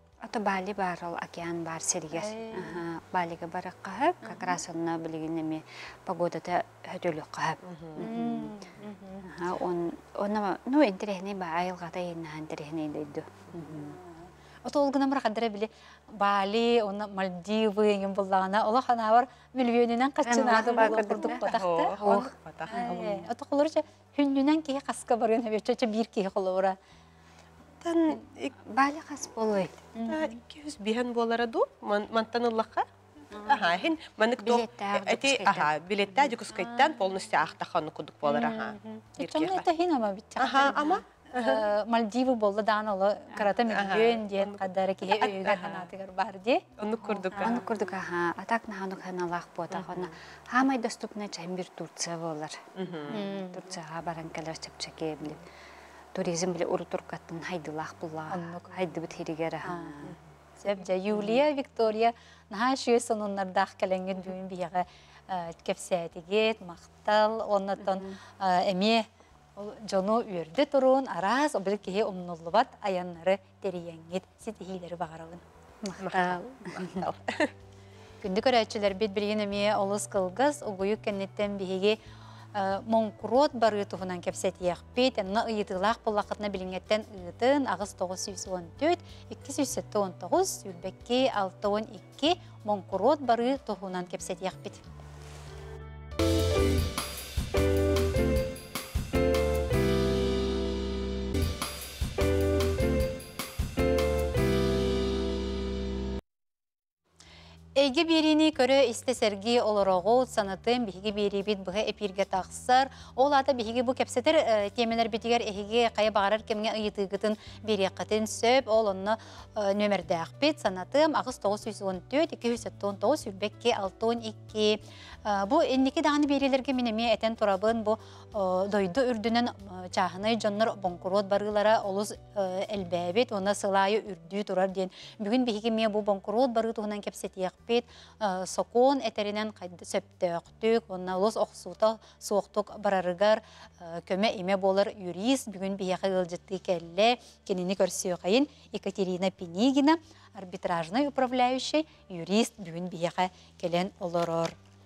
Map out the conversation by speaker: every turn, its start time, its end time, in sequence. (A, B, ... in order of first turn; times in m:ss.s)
0:00.2-0:08.6 A
0:02.1-0:02.8 B
0:04.2-0:04.6 B
0:07.6-0:08.1 C
0:08.0-0:09.2 B
0:09.2-0:14.0 A
0:13.5-0:26.8 B
0:20.2-0:21.5 A
0:20.7-0:23.3 C
0:22.0-0:23.1 A
0:27.8-0:28.5 C
0:28.7-0:29.8 A
0:29.9-0:30.4 B
0:30.1-0:32.8 C
0:33.3-0:33.8 B
0:33.4-0:39.6 C
0:34.4-0:35.7 A
0:36.5-0:37.0 B
0:38.2-0:46.6 B
0:40.4-0:41.7 C
0:43.7-0:45.9 C
0:46.8-0:47.7 C
0:47.0-0:55.4 A
0:47.3-0:47.6 B
0:49.7-0:50.1 C
0:52.8-0:53.2 C
0:53.1-0:53.7 B
0:56.1-1:00.2 A
0:58.3-0:58.7 B
0:59.6-1:15.4 B
1:07.8-1:08.1 A
1:16.0-1:17.5 C
1:16.1-1:17.0 A
1:18.2-1:22.0 B
1:22.5-1:34.8 B
1:47.7-2:34.5 B